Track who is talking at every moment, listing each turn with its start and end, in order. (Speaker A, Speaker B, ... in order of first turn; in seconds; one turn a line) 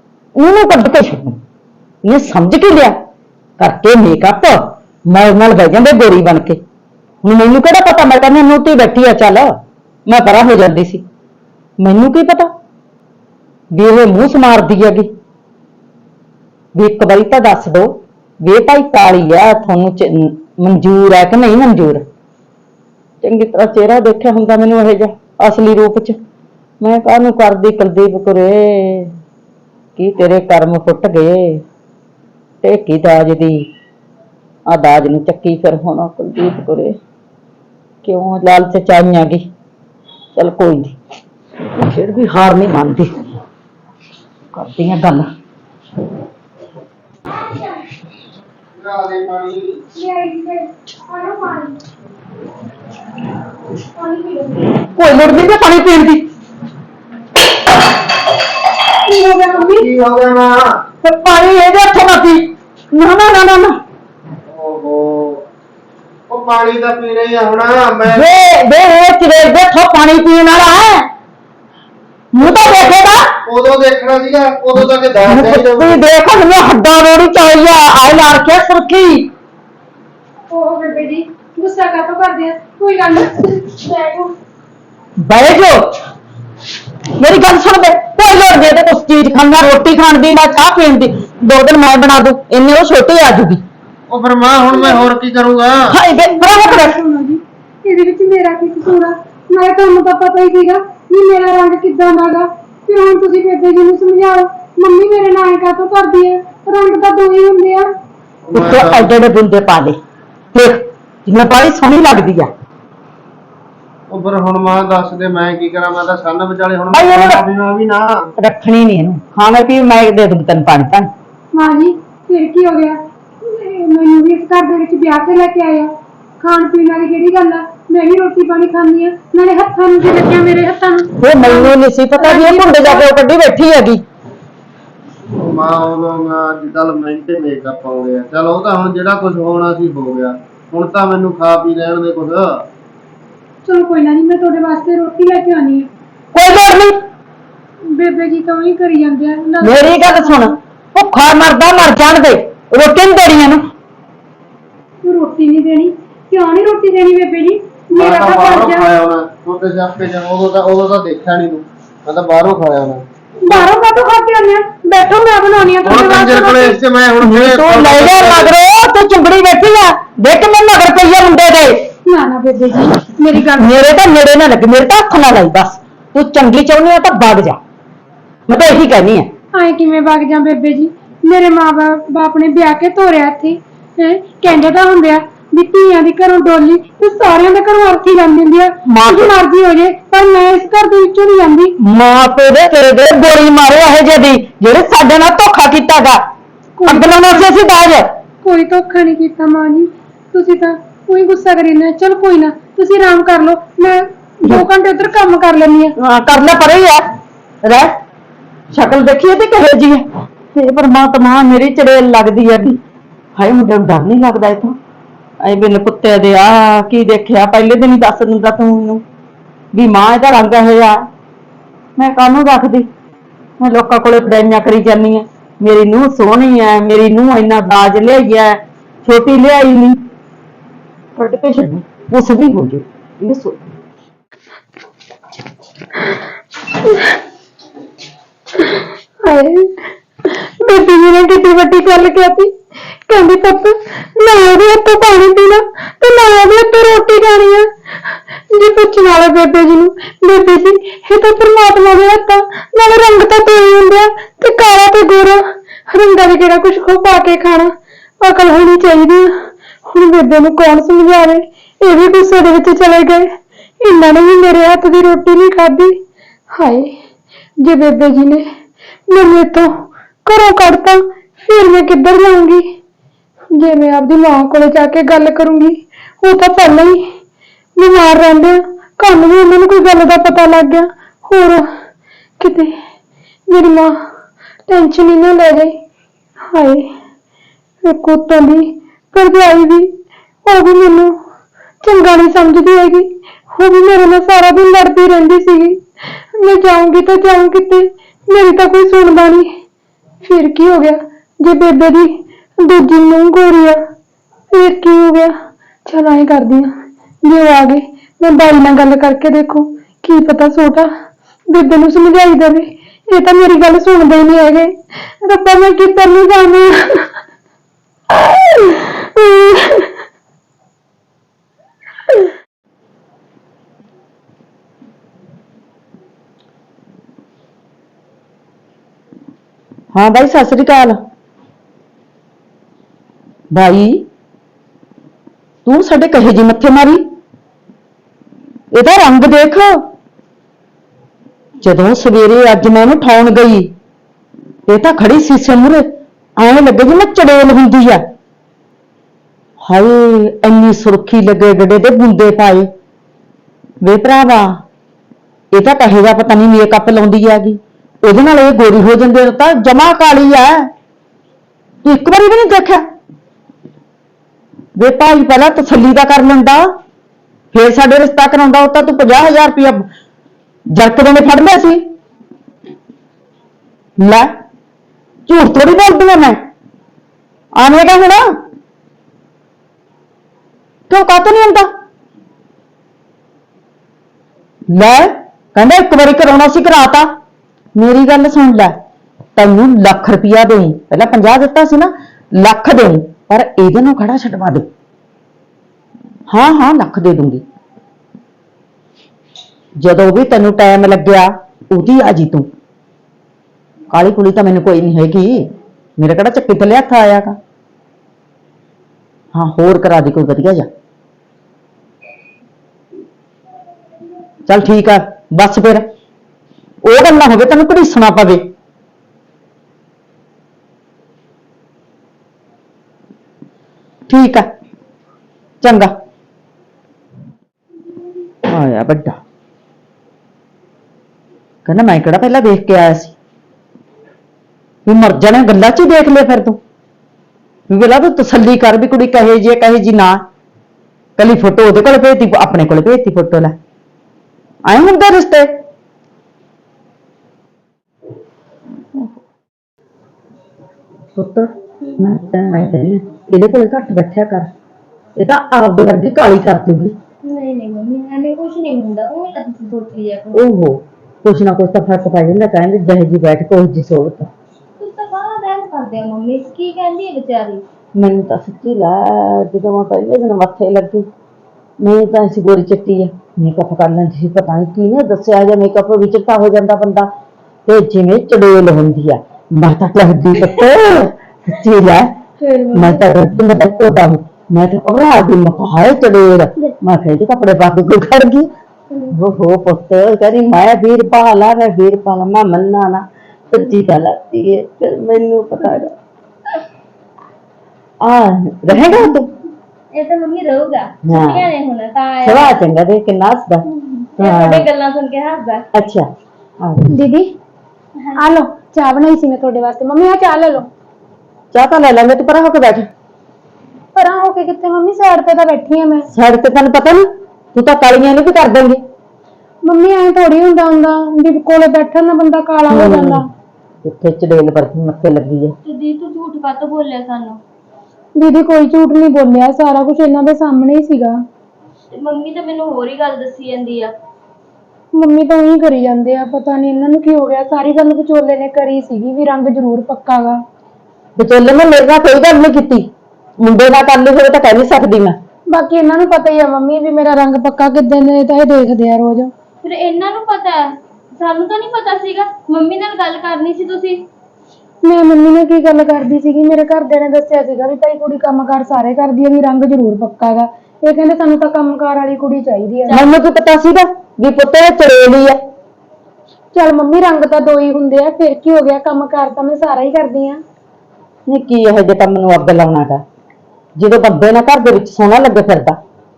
Speaker A: 0.3-1.4
Speaker A: 2.0-3.0
Speaker A: 3.6-6.6
Speaker A: 7.2-11.0
Speaker A: 11.8-12.5
Speaker A: 13.7-15.1
Speaker A: 16.7-22.0
Speaker A: 23.2-26.2
Speaker A: 26.8-29.1
Speaker A: 29.9-31.6
Speaker A: 32.6-33.6
Speaker A: 34.7-37.0
Speaker A: 38.0-39.5
Speaker A: 40.3-41.0
Speaker A: 41.7-43.2
Speaker A: 44.5-45.3
Speaker B: 48.8-49.8
Speaker C: 49.9-51.8
Speaker C: 53.9-54.8
Speaker A: 54.9-56.3
Speaker C: 59.0-59.9
Speaker B: 59.5-60.8
Speaker A: 61.0-63.8
Speaker B: 64.5-65.4
Speaker B: 66.3-68.2
Speaker A: 68.1-71.1
Speaker A: 72.3-73.3
Speaker B: 73.4-76.0
Speaker A: 74.8-79.3
Speaker C: 80.5-84.3
Speaker A: 85.2-86.0
Speaker A: 87.2-93.6
Speaker B: 94.1-96.0
Speaker C: 94.7-95.0
Speaker A: 95.9-97.0
Speaker C: 96.1-107.9
Speaker B: 108.5-109.1
Speaker A: 108.5-110.0
Speaker A: 110.5-112.5
Speaker B: 114.1-118.3
Speaker A: 116.9-117.4
Speaker A: 118.4-121.1
Speaker C: 121.5-133.1
Speaker A: 131.2-134.0
Speaker B: 135.4-142.6
Speaker C: 143.6-145.9
Speaker A: 146.3-147.0
Speaker C: 147.8-150.6
Speaker A: 149.6-153.6
Speaker C: 155.0-158.9
Speaker B: 158.0-163.6
Speaker C: 163.4-166.8
Speaker B: 165.8-168.5
Speaker A: 167.2-171.8
Speaker C: 172.1-173.7
Speaker A: 173.3-177.6
Speaker A: 178.5-179.3
Speaker C: 179.5-191.7
Speaker A: 188.8-189.3
Speaker A: 191.8-196.2
Speaker C: 196.8-197.5
Speaker A: 196.8-198.1
Speaker C: 198.4-205.9
Speaker A: 206.0-207.1
Speaker A: 207.6-207.9
Speaker A: 208.7-212.8
Speaker A: 213.3-214.8
Speaker A: 215.4-219.0
Speaker A: 219.7-221.1
Speaker A: 222.0-222.9
Speaker A: 223.6-230.0
Speaker A: 231.2-233.6
Speaker C: 239.2-266.0
Speaker C: 266.5-266.9
Speaker C: 267.6-268.5
Speaker C: 269.1-272.7
Speaker C: 273.5-277.1
Speaker C: 277.8-281.7
Speaker C: 282.4-282.8
Speaker C: 283.5-284.0
Speaker C: 284.7-285.8
Speaker C: 286.5-286.9
Speaker C: 287.8-289.9
Speaker C: 290.4-291.1
Speaker C: 291.8-295.8
Speaker C: 296.3-299.5
Speaker C: 300.2-303.8
Speaker C: 304.5-305.3
Speaker C: 305.8-310.9
Speaker C: 311.5-317.1
Speaker C: 318.6-319.9
Speaker A: 329.9-331.0
Speaker A: 333.5-334.1
Speaker A: 335.6-337.0
Speaker A: 338.7-339.9
Speaker A: 341.6-343.7
Speaker A: 344.7-345.9
Speaker A: 346.4-348.0
Speaker A: 349.6-352.7
Speaker A: 353.8-354.6
Speaker A: 355.5-360.7
Speaker A: 361.8-362.8
Speaker A: 364.8-366.8
Speaker A: 367.5-369.9
Speaker A: 370.7-371.8
Speaker A: 374.0-374.3
Speaker A: 375.3-376.4
Speaker A: 377.6-378.3
Speaker A: 380.9-381.7
Speaker A: 384.7-387.1
Speaker A: 387.7-388.7
Speaker A: 389.4-394.7
Speaker A: 396.3-397.4
Speaker A: 399.8-402.5
Speaker A: 403.9-407.4
Speaker A: 409.3-410.7
Speaker A: 414.5-415.9
Speaker A: 416.8-418.5
Speaker A: 424.1-424.5
Speaker A: 425.6-425.9
Speaker A: 428.4-429.2
Speaker A: 431.6-433.1
Speaker A: 434.9-436.6
Speaker A: 437.7-440.2
Speaker A: 441.2-443.6
Speaker A: 444.6-445.5
Speaker A: 451.1-454.5
Speaker A: 455.1-457.0
Speaker D: 457.2-460.5
Speaker A: 460.3-464.3
Speaker D: 464.8-467.6
Speaker A: 468.0-471.1
Speaker A: 471.8-477.1
Speaker A: 477.6-482.1
Speaker D: 482.5-483.0
Speaker A: 482.7-488.5
Speaker A: 489.1-495.9
Speaker A: 498.0-499.3
Speaker D: 499.9-502.6
Speaker A: 501.0-501.5
Speaker A: 502.2-503.6
Speaker D: 503.8-505.6
Speaker A: 504.2-504.7
Speaker A: 505.7-506.1
Speaker A: 506.6-506.9
Speaker C: 506.9-507.3
Speaker D: 508.0-508.2
Speaker C: 508.2-510.7
Speaker A: 511.5-512.9
Speaker C: 513.9-516.1
Speaker A: 516.1-518.8
Speaker C: 519.6-523.2
Speaker A: 522.7-523.2
Speaker A: 523.8-525.5
Speaker D: 525.6-527.4
Speaker C: 528.2-531.1
Speaker D: 531.9-533.9
Speaker C: 534.9-540.4
Speaker A: 541.2-542.9
Speaker A: 543.4-545.2
Speaker C: 545.5-549.3
Speaker D: 549.6-554.0
Speaker C: 554.8-563.0
Speaker A: 562.9-565.4
Speaker C: 566.5-570.4
Speaker A: 571.3-573.0
Speaker A: 573.8-575.8